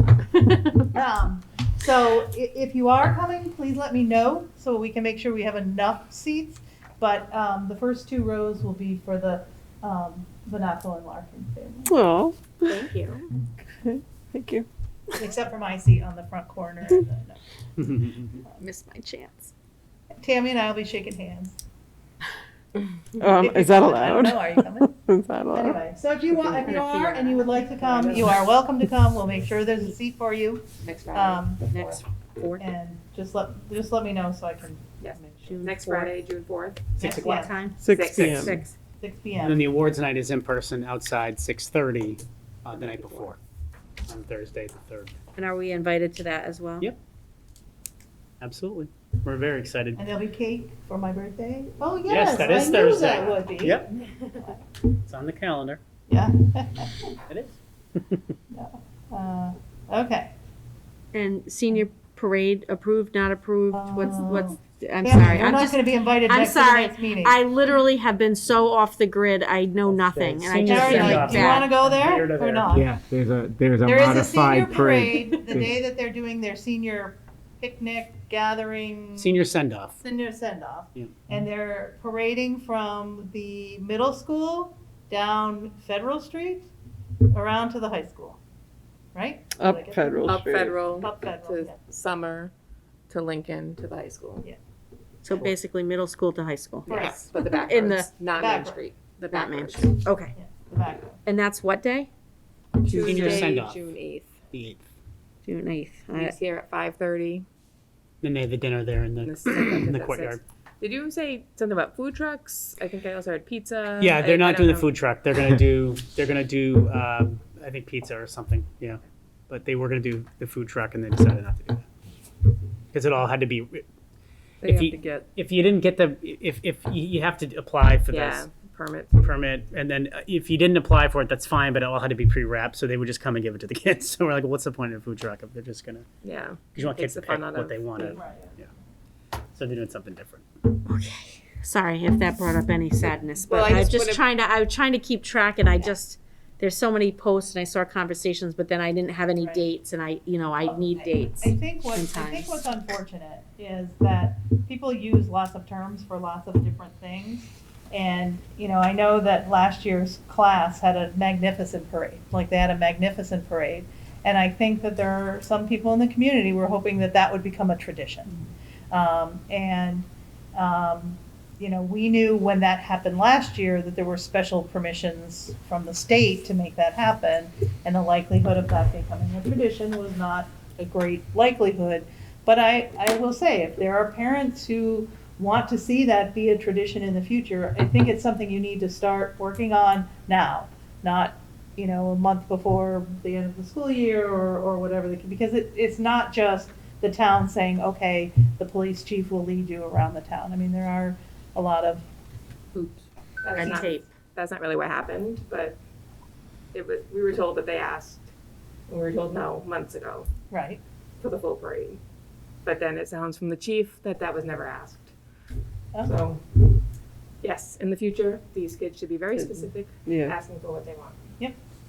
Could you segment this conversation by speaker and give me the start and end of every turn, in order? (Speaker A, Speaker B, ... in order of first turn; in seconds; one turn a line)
Speaker A: 0.6-11.9
Speaker B: 11.9-12.8
Speaker C: 12.7-13.3
Speaker B: 13.8-14.7
Speaker A: 15.2-17.4
Speaker D: 17.8-18.3
Speaker C: 18.6-19.5
Speaker A: 20.2-21.6
Speaker B: 23.2-25.8
Speaker A: 23.4-24.9
Speaker A: 25.5-31.7
Speaker C: 26.5-27.6
Speaker E: 27.7-28.3
Speaker E: 30.8-32.0
Speaker C: 31.7-32.7
Speaker A: 32.6-35.7
Speaker E: 35.0-36.9
Speaker C: 35.5-36.1
Speaker D: 37.0-37.5
Speaker A: 37.0-37.6
Speaker C: 37.0-38.8
Speaker B: 37.8-38.6
Speaker E: 37.9-38.6
Speaker D: 38.1-38.5
Speaker A: 39.0-39.7
Speaker D: 39.4-43.4
Speaker E: 42.7-43.4
Speaker D: 44.1-45.1
Speaker C: 45.4-46.9
Speaker D: 48.4-50.0
Speaker A: 50.0-54.6
Speaker D: 52.1-53.9
Speaker D: 54.9-55.8
Speaker A: 56.1-57.1
Speaker D: 57.3-58.2
Speaker A: 58.5-60.3
Speaker C: 61.1-71.7
Speaker A: 63.7-67.4
Speaker D: 69.9-72.8
Speaker A: 70.6-72.9
Speaker F: 72.8-75.6
Speaker A: 73.8-79.4
Speaker D: 79.2-80.0
Speaker A: 80.0-86.7
Speaker A: 87.3-88.4
Speaker A: 89.2-90.4
Speaker B: 89.6-90.8
Speaker E: 90.2-92.5
Speaker A: 90.9-91.8
Speaker E: 93.1-94.5
Speaker C: 95.2-98.1
Speaker E: 96.9-100.0
Speaker A: 96.9-97.2
Speaker A: 98.4-98.8
Speaker C: 99.2-100.3
Speaker A: 100.3-101.2
Speaker C: 101.2-102.1
Speaker E: 102.8-104.3
Speaker D: 102.8-103.9
Speaker D: 104.5-104.8
Speaker C: 105.5-106.4
Speaker E: 106.1-107.5
Speaker D: 108.2-110.4
Speaker E: 109.2-114.9
Speaker D: 114.0-121.9
Speaker D: 122.9-123.8
Speaker E: 124.6-125.3
Speaker D: 124.6-128.5
Speaker E: 128.1-129.2
Speaker D: 129.2-136.1
Speaker E: 136.2-138.2
Speaker D: 136.8-138.7
Speaker A: 138.1-138.5
Speaker D: 139.6-140.4
Speaker C: 140.9-152.6
Speaker E: 143.4-144.2
Speaker A: 150.7-168.4
Speaker A: 168.9-202.1
Speaker E: 203.4-205.8
Speaker C: 203.6-204.1
Speaker E: 206.7-208.3
Speaker E: 208.9-210.3
Speaker A: 210.5-210.8
Speaker E: 211.2-212.0
Speaker E: 212.6-215.1
Speaker E: 216.0-216.6
Speaker E: 217.4-221.2
Speaker B: 219.4-220.3